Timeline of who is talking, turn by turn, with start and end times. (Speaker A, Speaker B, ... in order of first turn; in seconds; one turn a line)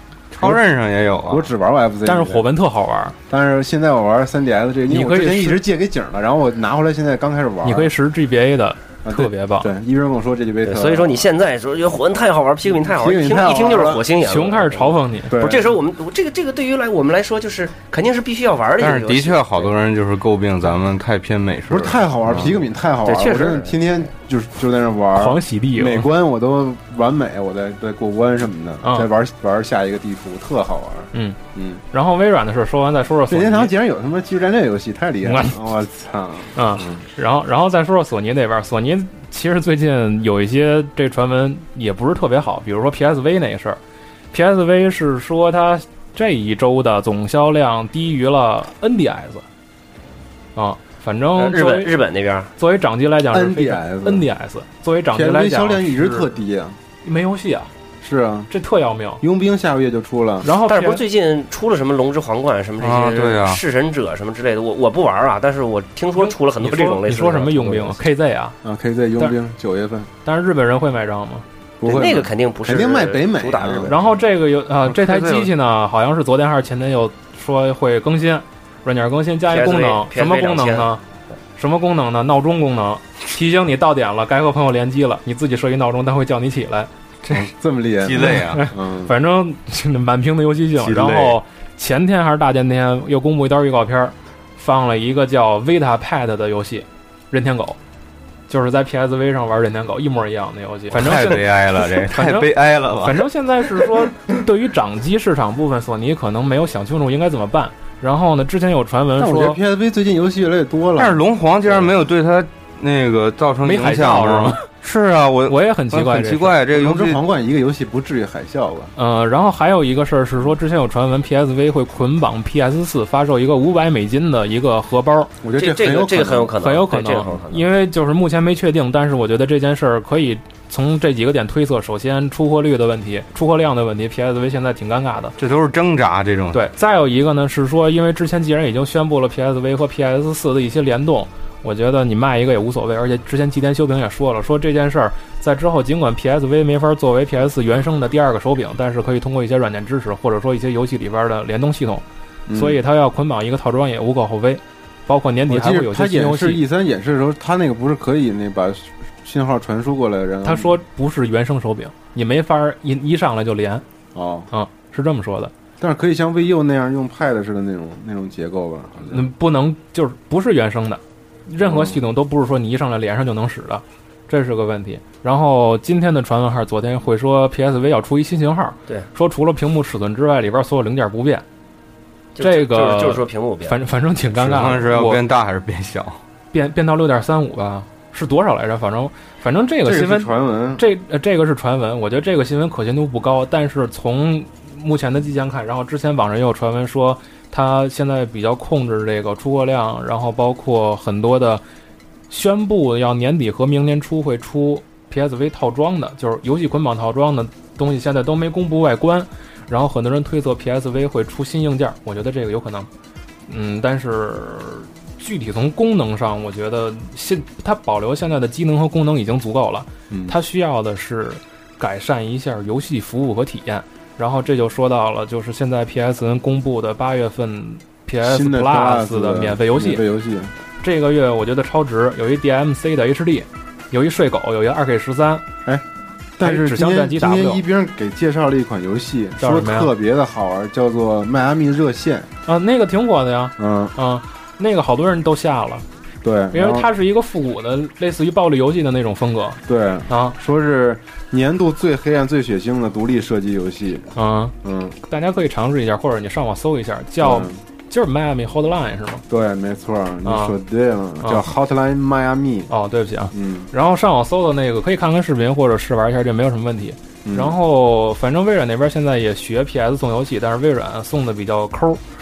Speaker A: 0.3-1.5
Speaker B: 1.2-2.5
Speaker C: 2.0-3.1
Speaker B: 3.3-7.9
Speaker C: 4.9-5.6
Speaker C: 7.6-9.7
Speaker B: 9.0-11.3
Speaker D: 10.6-19.7
Speaker B: 12.7-14.0
Speaker C: 14.2-15.3
Speaker B: 15.3-15.7
Speaker A: 18.8-22.0
Speaker B: 21.7-31.8
Speaker D: 23.0-23.8
Speaker C: 25.1-26.1
Speaker C: 28.8-29.1
Speaker C: 31.1-31.4
Speaker C: 31.9-33.7
Speaker B: 33.3-37.0
Speaker C: 35.2-35.5
Speaker C: 36.5-43.8
Speaker C: 44.3-49.4
Speaker C: 50.5-51.9
Speaker D: 51.3-52.5
Speaker C: 52.6-56.3
Speaker B: 53.3-54.3
Speaker B: 55.1-56.8
Speaker C: 57.0-57.7
Speaker B: 58.0-58.5
Speaker C: 58.5-59.2
Speaker B: 59.2-60.5
Speaker C: 60.4-61.0
Speaker D: 60.6-68.0
Speaker A: 62.8-63.6
Speaker C: 66.2-68.6
Speaker B: 68.6-70.1
Speaker C: 70.2-71.4
Speaker B: 71.8-74.0
Speaker D: 71.8-74.0
Speaker C: 73.9-81.0
Speaker D: 79.5-80.9
Speaker C: 81.5-86.9
Speaker B: 87.3-89.1
Speaker A: 88.0-88.7
Speaker C: 88.2-97.8
Speaker A: 90.8-91.4
Speaker C: 98.5-109.6
Speaker A: 100.9-104.1
Speaker B: 109.2-111.8
Speaker A: 111.0-117.2
Speaker C: 113.6-114.6
Speaker C: 115.5-116.6
Speaker B: 116.7-118.9
Speaker C: 119.0-125.3
Speaker B: 125.4-126.5
Speaker D: 125.5-127.7
Speaker C: 126.6-135.3
Speaker A: 135.4-136.6
Speaker C: 136.5-156.6
Speaker B: 152.5-152.8
Speaker B: 155.5-160.8
Speaker C: 160.4-163.8
Speaker B: 164.1-164.5
Speaker C: 164.5-165.5
Speaker B: 165.8-169.2
Speaker C: 169.0-181.4
Speaker B: 171.6-172.0
Speaker D: 182.3-183.8
Speaker C: 182.4-185.2
Speaker A: 184.3-186.2
Speaker C: 186.5-201.6
Speaker B: 189.8-190.8
Speaker C: 202.3-212.9
Speaker C: 213.5-230.0
Speaker B: 220.1-220.4
Speaker B: 228.2-230.5
Speaker C: 230.8-235.4
Speaker B: 236.4-242.3
Speaker C: 236.4-237.6
Speaker C: 239.4-239.9
Speaker C: 242.4-245.8
Speaker B: 243.6-243.9
Speaker B: 246.2-246.9
Speaker C: 246.5-250.3
Speaker B: 249.7-254.1
Speaker C: 254.2-259.2
Speaker B: 254.6-254.9
Speaker B: 257.2-257.6
Speaker B: 259.3-262.7
Speaker C: 260.2-260.5
Speaker C: 261.2-261.5
Speaker C: 262.7-272.0
Speaker B: 263.3-263.7
Speaker B: 267.2-267.6